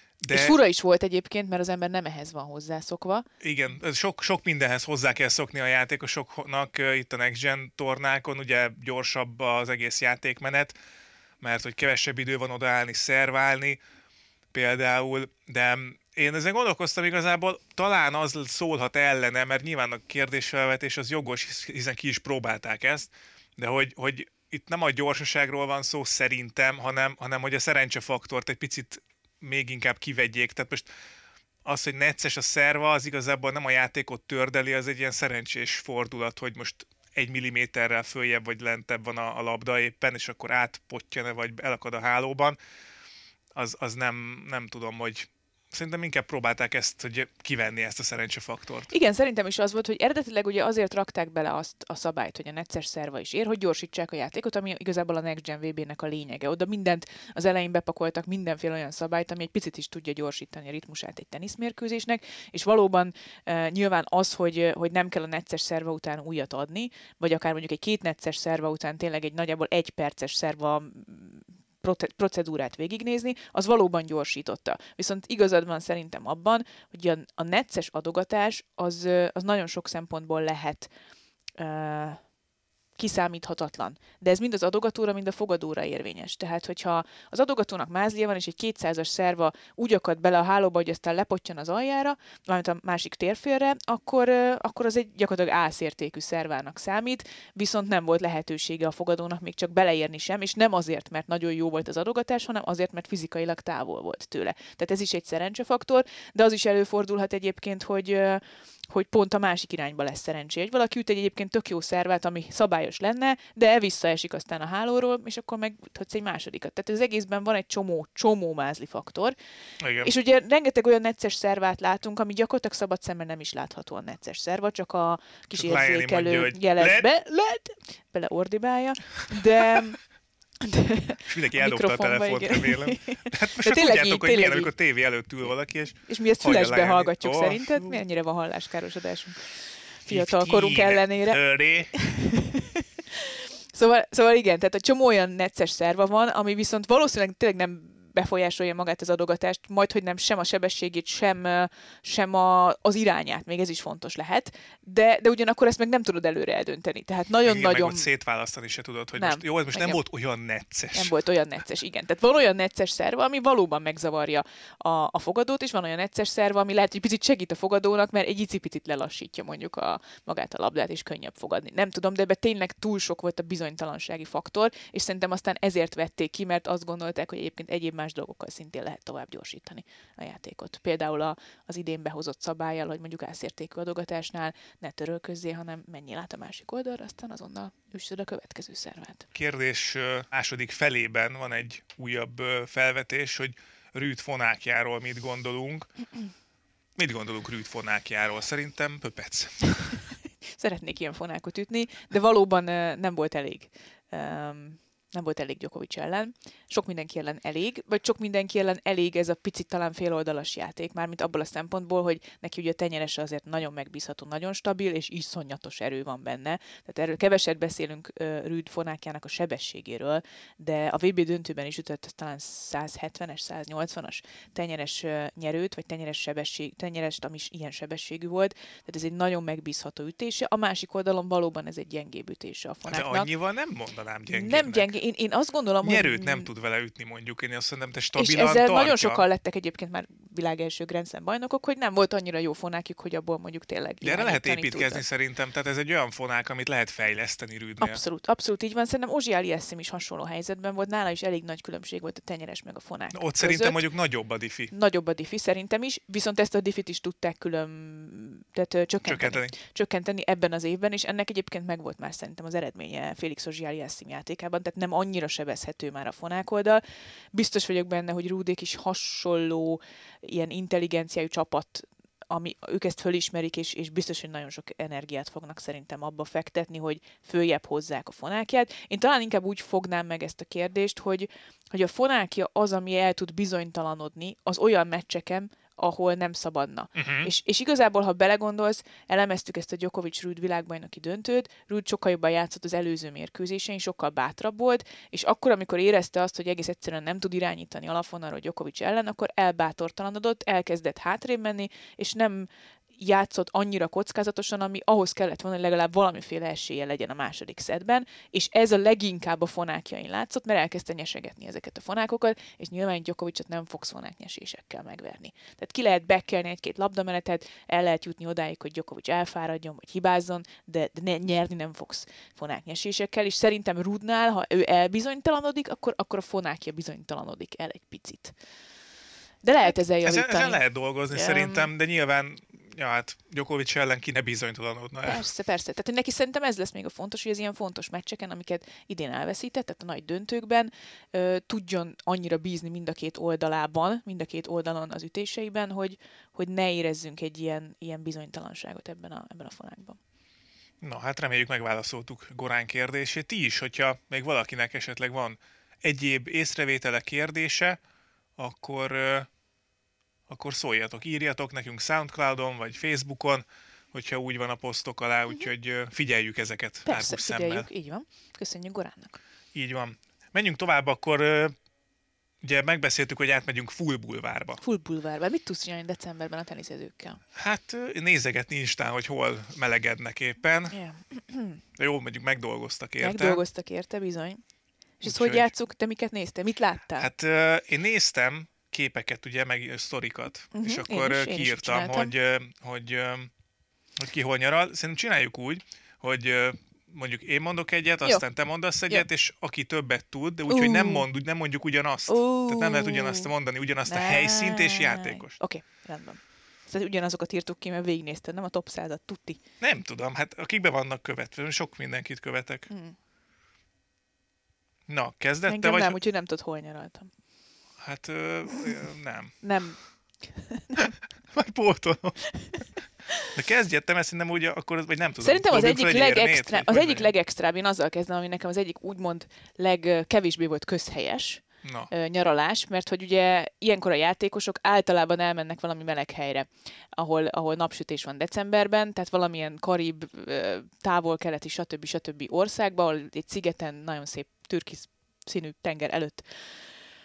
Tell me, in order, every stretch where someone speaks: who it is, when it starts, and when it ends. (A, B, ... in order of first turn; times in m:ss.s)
0:00.2-0:00.6 A
0:00.3-0:03.2 B
0:03.4-0:10.8 A
0:11.4-0:13.8 A
0:14.5-0:30.9 A
0:31.6-0:42.6 A
0:43.5-0:48.9 A
0:48.9-1:20.9 B
1:21.6-1:22.2 B
1:23.0-1:59.4 B
1:59.8-2:00.1 A
2:00.0-2:10.0 B
2:05.5-2:07.1 A
2:10.6-2:14.7 B
2:11.2-2:18.0 A
2:16.1-2:21.4 B
2:20.1-2:21.9 A
2:21.9-2:38.1 B
2:37.4-2:41.1 A
2:39.1-2:40.0 B
2:40.9-3:09.3 B
3:09.3-3:15.9 A
3:17.0-3:19.8 A
3:20.6-3:53.3 B
3:52.8-3:54.9 A
3:54.3-3:56.5 B
3:55.8-3:59.2 A
3:58.1-4:05.0 B
4:04.0-4:08.0 A
4:07.8-4:13.8 B
4:13.1-4:14.7 A
4:14.7-5:28.4 B
4:19.0-4:19.5 A
4:47.0-4:47.3 A
5:29.4-5:31.7 B
5:29.6-5:35.2 A
5:35.0-5:50.0 B
5:50.8-5:57.8 A
5:58.4-5:59.3 A
6:00.3-6:07.7 A
6:06.9-6:09.2 B
6:09.5-6:11.6 A
6:12.4-6:14.6 A
6:14.6-6:17.2 B
6:17.4-6:20.8 A
6:20.7-6:21.6 B
6:21.8-6:23.4 A
6:23.0-6:24.4 B
6:25.0-6:27.1 B
6:25.0-6:25.5 A
6:27.0-6:33.3 A
6:30.5-6:32.1 B
6:34.0-6:45.4 A
6:40.5-6:41.0 B
6:42.1-6:43.3 B
6:43.8-6:49.4 B
6:49.6-6:52.7 A
6:52.7-6:53.0 B
6:54.9-6:56.0 A
6:55.5-6:57.1 B
6:57.8-6:59.4 A
6:59.4-7:00.9 B
7:01.3-7:02.2 A
7:02.3-7:03.3 B
7:03.3-7:07.1 A
7:05.2-7:26.7 B
7:11.6-7:11.9 A